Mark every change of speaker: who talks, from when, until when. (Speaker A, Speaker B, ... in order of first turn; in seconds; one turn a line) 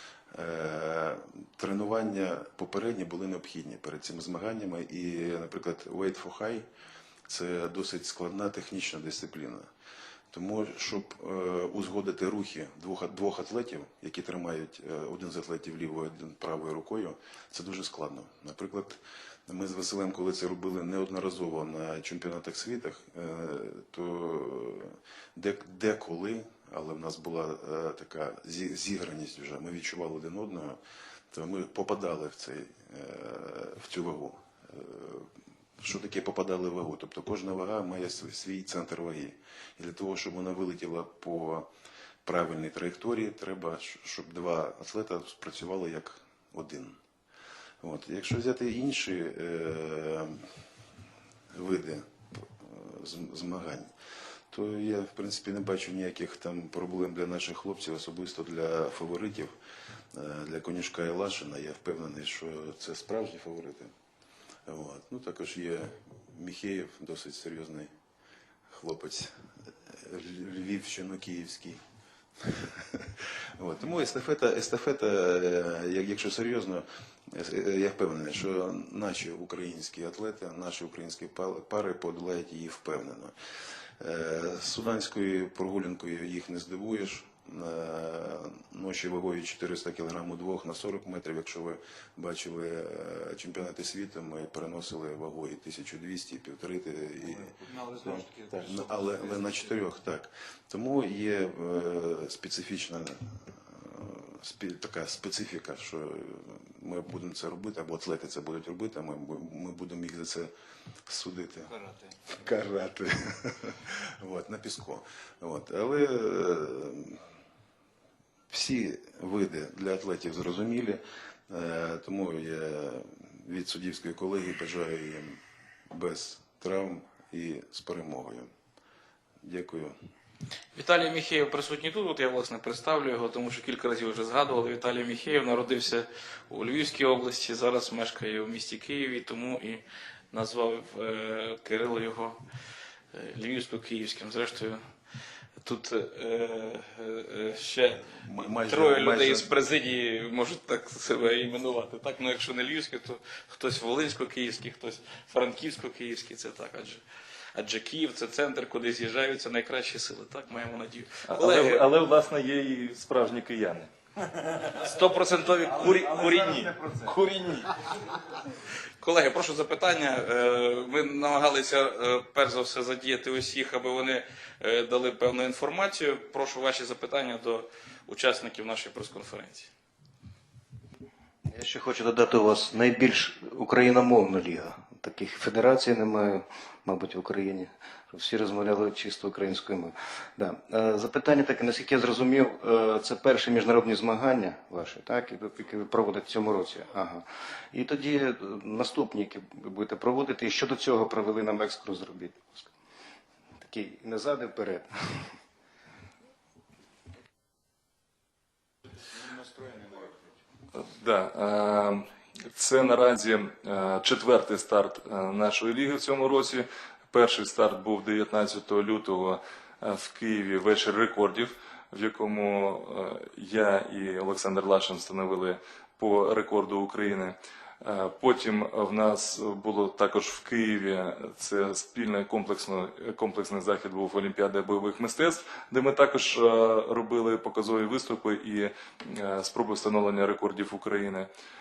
Speaker A: 0.3-6.7
Speaker A: 7.3-9.7
Speaker A: 10.3-30.8
Speaker A: 31.3-41.7
Speaker A: 42.2-47.0
Speaker A: 47.8-50.5
Speaker A: 51.5-53.9
Speaker A: 54.5-59.5
Speaker A: 60.1-63.9
Speaker A: 64.7-67.9
Speaker A: 68.7-71.8
Speaker A: 72.4-83.3
Speaker A: 84.0-110.5
Speaker B: 97.3-99.8
Speaker A: 111.1-111.7
Speaker B: 111.7-112.2
Speaker A: 112.3-117.2
Speaker A: 118.5-128.5
Speaker A: 129.4-130.0
Speaker C: 130.8-142.4
Speaker C: 143.1-144.8
Speaker C: 145.6-157.0
Speaker A: 148.1-149.5
Speaker C: 157.6-161.8
Speaker D: 161.3-163.9
Speaker C: 164.6-167.7
Speaker C: 169.0-179.7
Speaker E: 181.5-202.7
Speaker E: 203.6-205.3
Speaker B: 209.1-210.2
Speaker D: 210.7-241.3